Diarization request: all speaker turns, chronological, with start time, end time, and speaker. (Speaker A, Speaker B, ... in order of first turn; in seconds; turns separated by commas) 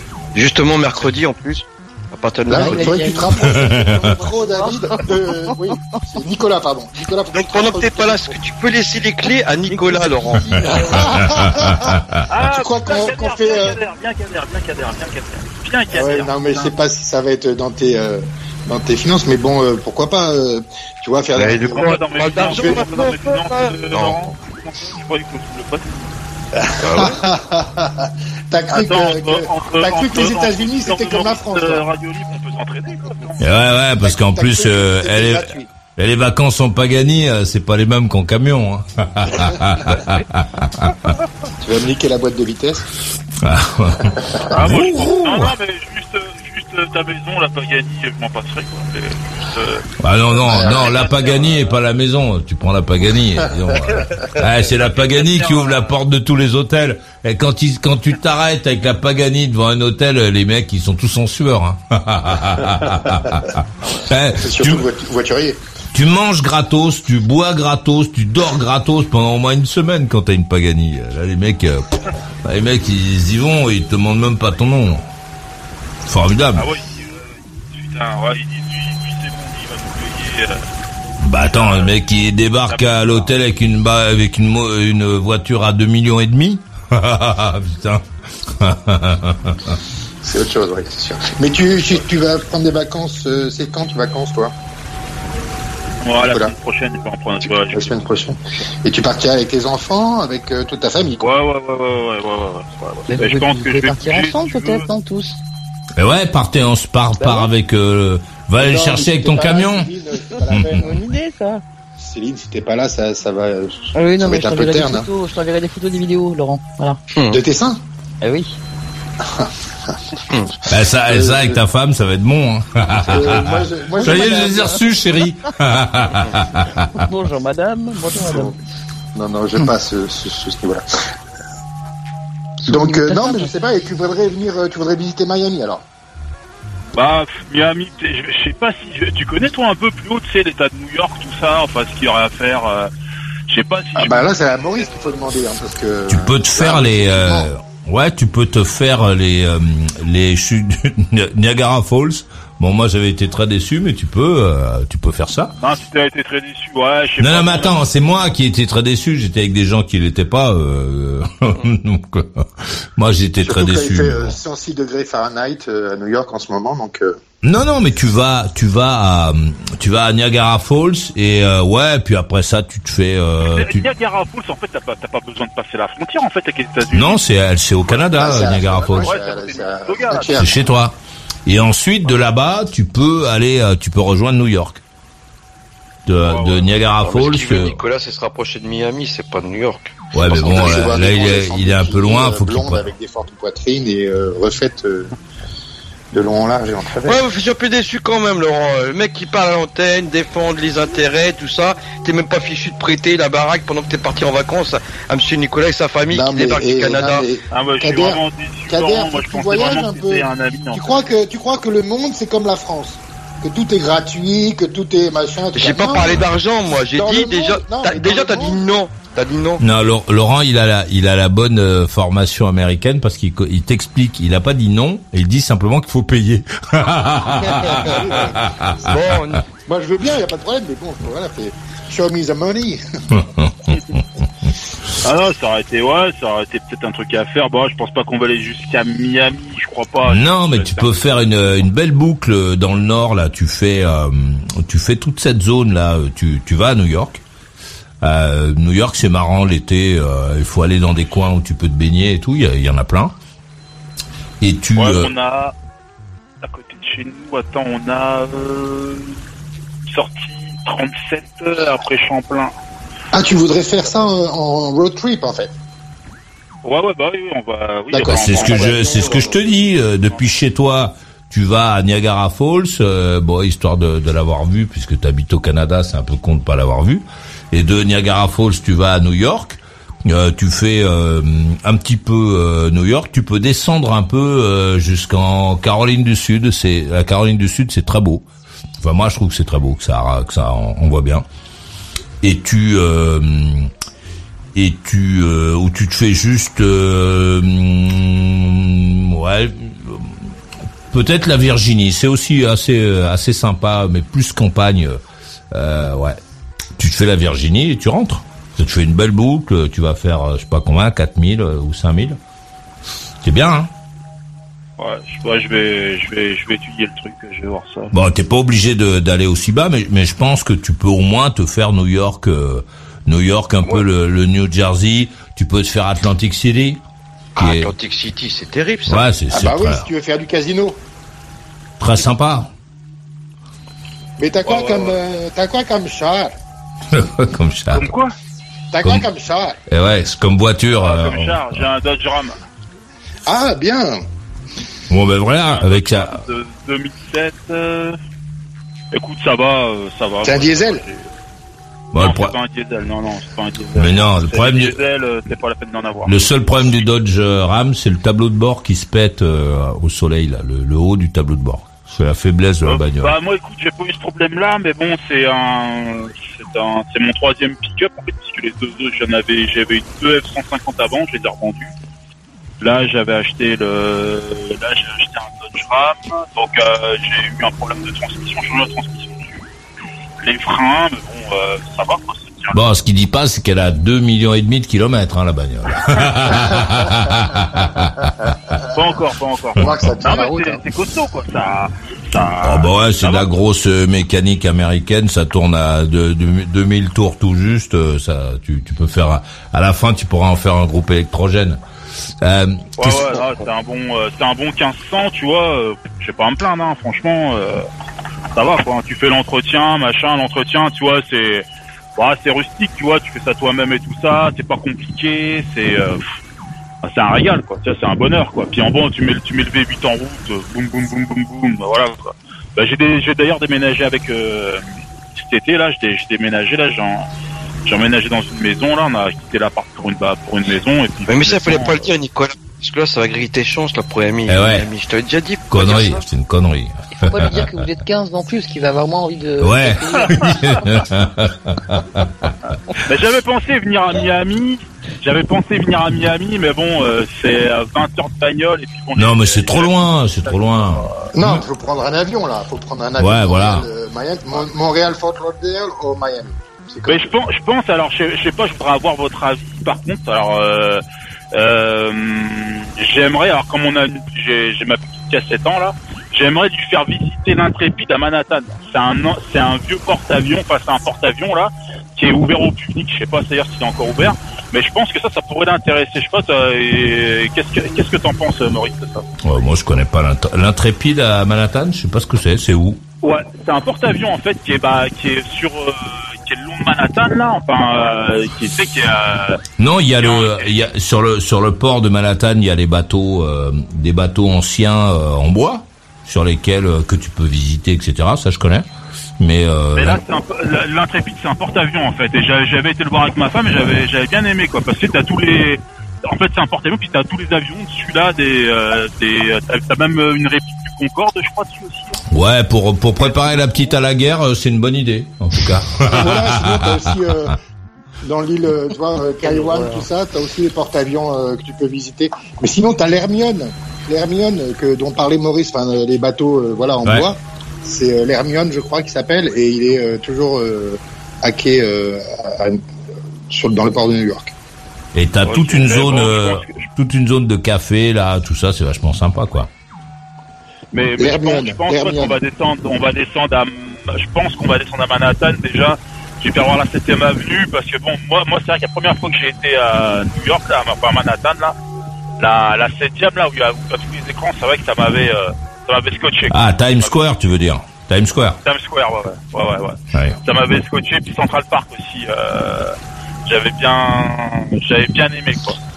Speaker A: 0.3-3.2, Speaker B: 2.5-8.4, Speaker C: 2.5-5.6, Speaker D: 3.5-4.0, Speaker A: 7.3-10.6, Speaker C: 9.7-11.6, Speaker B: 10.7-13.8, Speaker D: 11.4-12.2, Speaker E: 12.3-16.7, Speaker B: 15.9-22.9, Speaker A: 21.4-24.3, Speaker E: 21.8-26.1, Speaker B: 26.6-31.9, Speaker A: 26.8-27.2, Speaker E: 28.7-33.6, Speaker D: 33.4-41.0, Speaker B: 34.0-35.7, Speaker B: 41.6-42.9, Speaker D: 43.4-45.5, Speaker B: 44.1-44.9, Speaker E: 44.5-49.9, Speaker D: 50.0-64.8, Speaker B: 50.4-50.9, Speaker E: 50.6-51.8, Speaker B: 53.6-54.0, Speaker E: 54.8-56.0, Speaker B: 64.3-65.6, Speaker D: 65.9-75.1, Speaker D: 76.1-76.6, Speaker E: 76.6-80.7, Speaker D: 81.2-89.8, Speaker E: 81.4-82.0, Speaker E: 82.7-83.3, Speaker B: 90.2-94.5, Speaker E: 96.0-98.1, Speaker B: 96.2-96.5, Speaker B: 97.4-101.3, Speaker E: 101.2-104.9, Speaker C: 103.1-105.4, Speaker D: 106.0-109.9, Speaker C: 107.2-107.5, Speaker B: 108.6-111.0, Speaker C: 110.3-111.6, Speaker D: 110.5-110.8, Speaker B: 112.0-115.1, Speaker C: 114.0-117.0, Speaker A: 117.1-117.4, Speaker B: 117.3-117.8, Speaker C: 118.2-118.6, Speaker B: 119.2-119.9, Speaker D: 120.7-126.9, Speaker B: 121.1-121.6, Speaker B: 123.1-124.8, Speaker C: 124.0-124.8, Speaker C: 127.0-128.5, Speaker B: 128.2-128.6, Speaker B: 129.1-130.9, Speaker C: 132.6-133.5, Speaker B: 132.6-135.8, Speaker E: 136.9-142.9, Speaker E: 143.5-145.2, Speaker B: 143.9-147.5, Speaker D: 146.1-155.5, Speaker E: 155.6-157.8, Speaker D: 157.2-164.4, Speaker B: 163.4-167.2, Speaker D: 167.4-173.9, Speaker E: 173.4-177.2, Speaker D: 176.9-179.1, Speaker B: 178.1-180.6, Speaker E: 178.7-180.6, Speaker D: 180.4-184.8, Speaker D: 186.1-187.8, Speaker E: 186.2-186.8, Speaker A: 187.0-190.9, Speaker D: 190.1-192.9, Speaker B: 190.3-195.1, Speaker B: 196.1-197.2, Speaker A: 197.1-207.2, Speaker B: 206.1-216.2, Speaker E: 207.5-211.1, Speaker A: 215.6-219.6, Speaker B: 216.9-218.6, Speaker D: 219.6-229.0, Speaker B: 227.6-228.5, Speaker A: 228.9-229.4, Speaker B: 229.7-232.8, Speaker D: 233.1-233.7, Speaker E: 235.0-240.9, Speaker D: 240.1-247.2, Speaker D: 248.0-253.1, Speaker D: 254.4-255.1, Speaker E: 254.8-255.6, Speaker E: 256.4-259.2, Speaker E: 259.9-262.5, Speaker B: 263.1-265.5, Speaker E: 266.6-269.5, Speaker B: 267.9-269.3, Speaker D: 268.1-288.3, Speaker D: 288.8-291.2, Speaker D: 292.2-293.7, Speaker D: 294.5-300.2, Speaker D: 300.9-305.0, Speaker D: 305.5-306.2, Speaker D: 306.8-312.2, Speaker D: 313.2-313.7, Speaker E: 314.8-317.9, Speaker D: 317.9-326.8, Speaker A: 327.4-329.2, Speaker D: 327.4-327.7, Speaker D: 328.9-329.9, Speaker B: 329.3-330.8, Speaker D: 331.8-332.5, Speaker B: 334.2-336.3, Speaker E: 334.4-334.9, Speaker D: 336.9-337.9, Speaker E: 337.7-338.1, Speaker B: 338.7-339.6, Speaker D: 339.7-341.6, Speaker E: 340.8-342.4, Speaker B: 343.3-344.0, Speaker D: 344.9-346.2, Speaker E: 345.4-348.0, Speaker E: 348.9-351.1, Speaker B: 350.2-350.8, Speaker D: 351.9-352.4, Speaker E: 351.9-356.1, Speaker D: 353.8-354.8, Speaker D: 356.1-363.2, Speaker E: 362.6-371.7, Speaker E: 372.6-379.4, Speaker E: 380.2-382.6, Speaker D: 382.5-388.3, Speaker E: 388.7-393.3, Speaker B: 389.6-390.6, Speaker D: 392.4-401.6, Speaker D: 402.2-403.2, Speaker E: 402.8-407.7, Speaker E: 408.4-416.0, Speaker E: 416.8-424.6, Speaker E: 425.2-427.1, Speaker E: 427.6-431.9, Speaker A: 431.1-436.0, Speaker D: 434.3-434.6, Speaker D: 435.5-437.5, Speaker C: 437.0-440.1, Speaker D: 439.4-442.3, Speaker E: 442.9-451.1, Speaker D: 448.9-451.4, Speaker B: 451.1-457.1, Speaker D: 453.0-453.7, Speaker E: 456.9-479.1, Speaker D: 479.2-482.8, Speaker E: 483.0-489.4, Speaker D: 489.6-498.7, Speaker E: 490.0-490.5, Speaker D: 499.2-500.0, Speaker E: 499.8-512.0, Speaker D: 512.1-516.8, Speaker E: 513.0-513.6, Speaker B: 515.9-517.4, Speaker B: 518.0-532.6, Speaker C: 519.2-519.8, Speaker B: 533.3-534.3, Speaker D: 534.9-539.5, Speaker E: 535.3-536.7, Speaker E: 540.7-551.6, Speaker B: 541.0-542.2, Speaker E: 552.2-557.0, Speaker D: 556.3-558.4, Speaker E: 558.4-565.6